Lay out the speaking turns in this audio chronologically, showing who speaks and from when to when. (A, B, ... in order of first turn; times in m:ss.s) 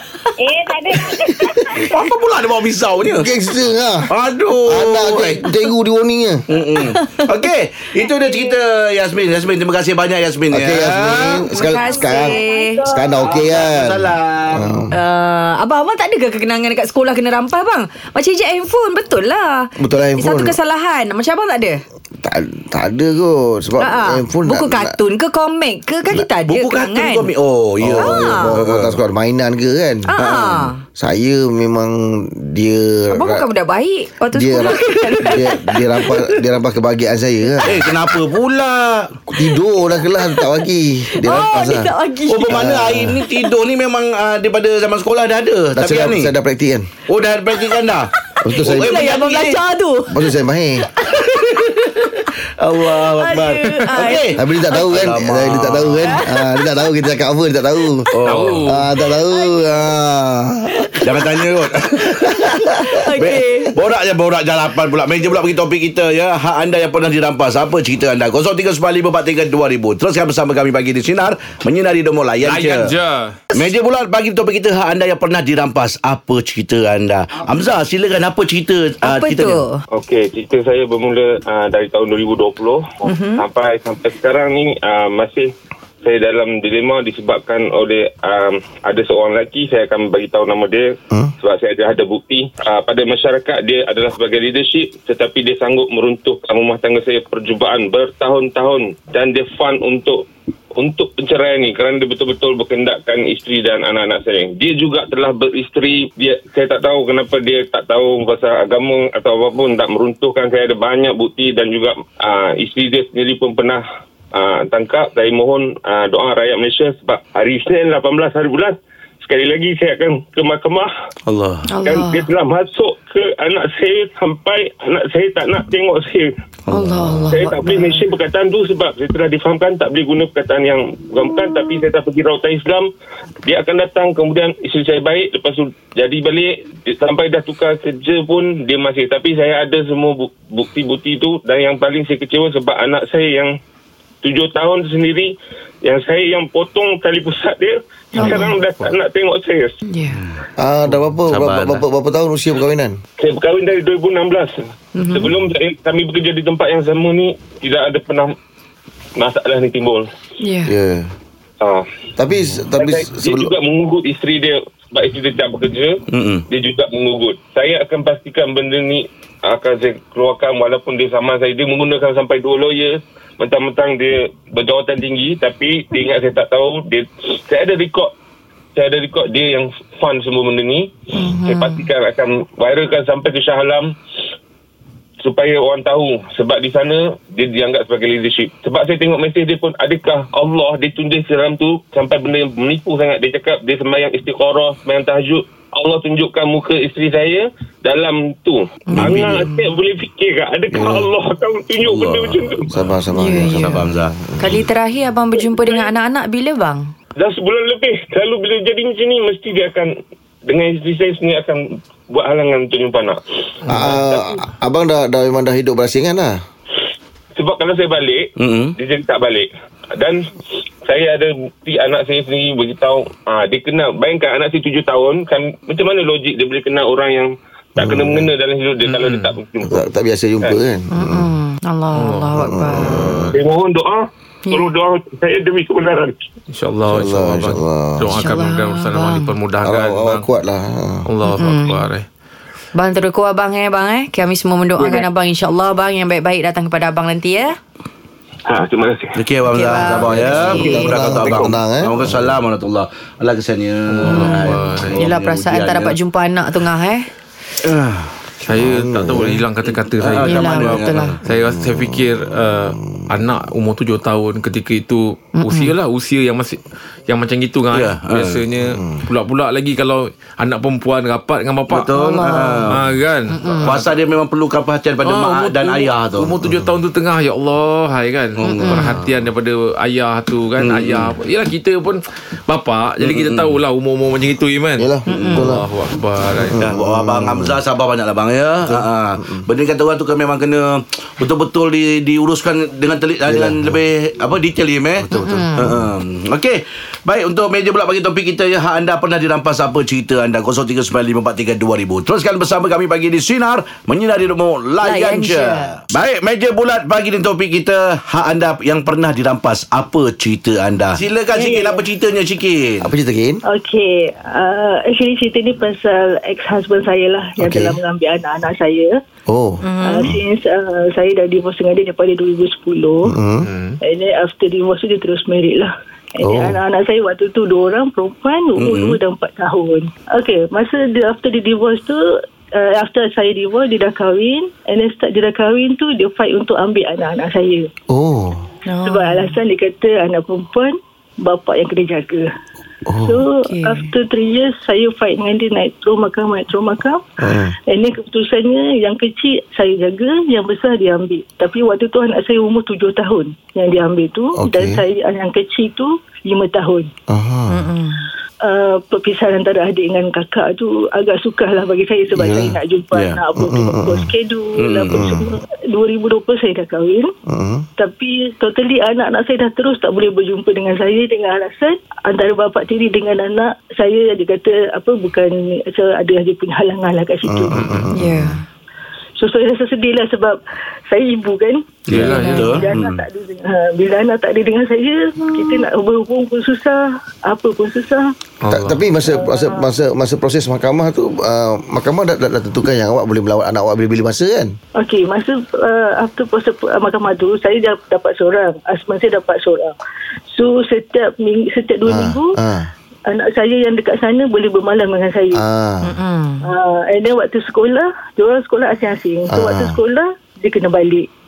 0:00.4-0:02.1 A
0:01.8-0:03.3 B
0:03.0-0:04.1 C
0:04.1-0:05.5 B
0:04.6-0:06.4 C
0:06.5-0:11.4 B
0:08.0-0:08.6 A
0:10.5-0:14.9 C
0:11.5-0:13.3 A
0:11.5-0:12.8 D
0:13.2-0:14.8 B
0:14.9-0:21.8 D
0:19.8-0:20.6 C
0:22.2-0:25.0 C
0:23.8-0:27.3 D
0:26.5-0:29.0 B
0:27.8-0:30.1 C
0:28.0-0:28.6 D
0:30.1-0:30.8 D
0:30.2-0:30.7 B
0:31.0-0:33.4 C
0:33.1-0:36.1 D
0:34.3-0:37.9 C
0:37.6-0:39.1 B
0:39.3-0:41.9 C
0:41.2-0:42.7 D
0:42.3-0:46.4 B
0:42.5-0:43.2 C
0:45.8-0:46.9 C
0:47.1-0:49.6 B
0:48.4-0:49.1 C
0:48.6-0:50.1 D
0:50.1-0:50.9 C
0:51.2-0:51.7 B
0:52.6-0:56.2 B
0:53.0-0:54.9 D
0:54.4-0:58.1 C
0:56.0-0:56.7 D
0:58.1-0:58.7 B
0:58.2-0:58.9 E
0:58.6-1:00.8 C
0:59.3-0:59.9 D
1:00.8-1:01.4 D
1:01.0-1:02.2 B
1:02.2-1:03.7 D
1:03.2-1:12.9 B
1:12.4-1:13.4 E
1:13.5-1:19.6 B
1:19.0-1:19.8 D
1:19.9-1:25.5 F
1:23.0-1:23.4 D
1:26.0-1:40.2 F
1:40.8-1:53.8 F
1:54.4-2:00.9 F
2:01.3-2:01.8 B
2:01.7-2:02.3 D
2:01.8-2:06.3 F
2:06.7-2:07.3 B
2:06.7-2:08.0 D
2:07.3-2:12.9 F
2:13.4-2:23.6 F
2:24.2-2:29.8 F
2:28.2-2:28.5 D
2:30.1-2:31.8 B
2:30.6-2:33.0 C
2:33.2-2:38.4 F
2:35.0-2:35.3 D
2:39.2-2:40.1 F
2:40.6-2:41.1 C
2:41.6-2:41.9 F
2:42.2-2:43.5 C
2:42.8-2:58.1 F
2:46.1-2:46.4 B
2:58.8-3:03.9 F
3:01.2-3:01.8 D
3:05.2-3:22.7 F
3:18.9-3:19.3 B
3:20.7-3:21.1 C
3:21.8-3:22.9 B
3:22.7-3:24.6 C
3:23.1-3:23.8 D
3:23.5-3:24.6 B
3:24.4-3:26.9 D
3:25.3-3:25.9 F
3:27.2-3:29.9 F
3:30.5-3:33.2 F
3:33.7-3:34.0 E
3:33.7-3:36.4 C
3:33.9-3:34.4 F
3:37.4-3:40.2 F
3:38.4-3:38.7 B
3:40.8-3:49.8 F
3:47.8-3:48.3 C
3:48.8-3:49.4 E
3:49.6-3:51.3 C
3:50.9-3:53.2 D
3:51.9-3:52.4 E
3:52.4-3:53.4 C
3:53.3-3:56.1 F
3:56.5-4:00.3 E
3:56.9-3:58.3 C
3:58.1-3:59.3 D
3:59.6-4:01.1 C
4:01.1-4:02.1 E
4:01.4-4:01.7 D
4:02.8-4:07.6 D
4:08.5-4:09.2 F
4:09.2-4:16.0 B
4:09.5-4:10.9 D
4:10.1-4:12.3 C
4:13.9-4:15.1 E
4:14.1-4:17.1 D
4:17.6-4:18.1 B
4:18.4-4:33.8 E
4:18.4-4:19.4 C
4:19.7-4:21.1 B
4:20.2-4:21.2 D
4:21.3-4:23.3 C
4:25.4-4:25.7 D
4:27.7-4:28.4 B
4:28.6-4:29.0 C
4:31.7-4:32.8 B
4:32.2-4:32.6 D
4:33.3-4:33.8 D
4:33.6-4:36.4 B
4:35.0-4:46.6 E
4:38.4-4:38.9 B
4:38.5-4:39.0 D
4:40.6-4:41.2 B
4:43.0-4:43.6 B
4:44.8-4:45.7 C
4:45.1-4:45.5 D
4:46.4-4:47.6 C
4:46.6-5:12.9 B
4:48.6-4:49.5 C
4:53.3-4:53.8 C
4:55.0-4:55.8 C
4:55.1-4:55.7 D
5:04.8-5:05.7 D
5:11.3-5:11.8 G
5:12.8-5:13.4 C
5:13.5-5:19.0 G
5:17.4-5:17.8 C
5:19.3-5:20.2 C
5:19.6-5:20.1 D
5:19.8-5:23.1 G
5:23.0-5:23.5 C
5:23.4-5:23.8 E
5:23.8-5:32.0 G
5:26.2-5:26.6 C
5:28.6-5:29.0 B
5:32.5-5:37.7 G
5:37.9-5:38.4 C
5:38.7-5:39.2 D
5:38.8-5:42.3 G
5:42.9-5:43.2 C
5:43.0-5:47.0 G
5:43.4-5:43.8 D
5:47.2-5:47.6 C
5:47.7-5:56.9 G
5:54.4-5:54.8 C
5:57.1-5:57.7 C
5:57.5-5:57.9 D
5:58.4-6:07.1 G
6:02.1-6:02.6 C
6:02.9-6:03.2 B
6:03.3-6:04.1 C
6:04.6-6:05.0 B
6:04.9-6:05.3 C
6:07.3-6:07.7 C
6:07.8-6:17.7 G
6:17.2-6:18.4 C
6:17.6-6:17.9 E
6:17.9-6:18.4 D
6:19.2-6:20.4 G
6:20.9-6:28.0 G
6:21.9-6:23.0 B
6:21.9-6:22.4 E
6:22.1-6:22.6 D
6:28.4-6:28.8 E
6:28.5-6:34.6 C
6:29.1-6:29.7 G
6:34.8-6:39.7 G
6:40.3-6:42.3 G
6:41.8-6:42.7 C
6:43.1-6:45.4 G
6:45.3-6:46.0 C
6:45.8-6:46.4 D
6:46.4-6:51.1 G
6:49.3-6:49.8 C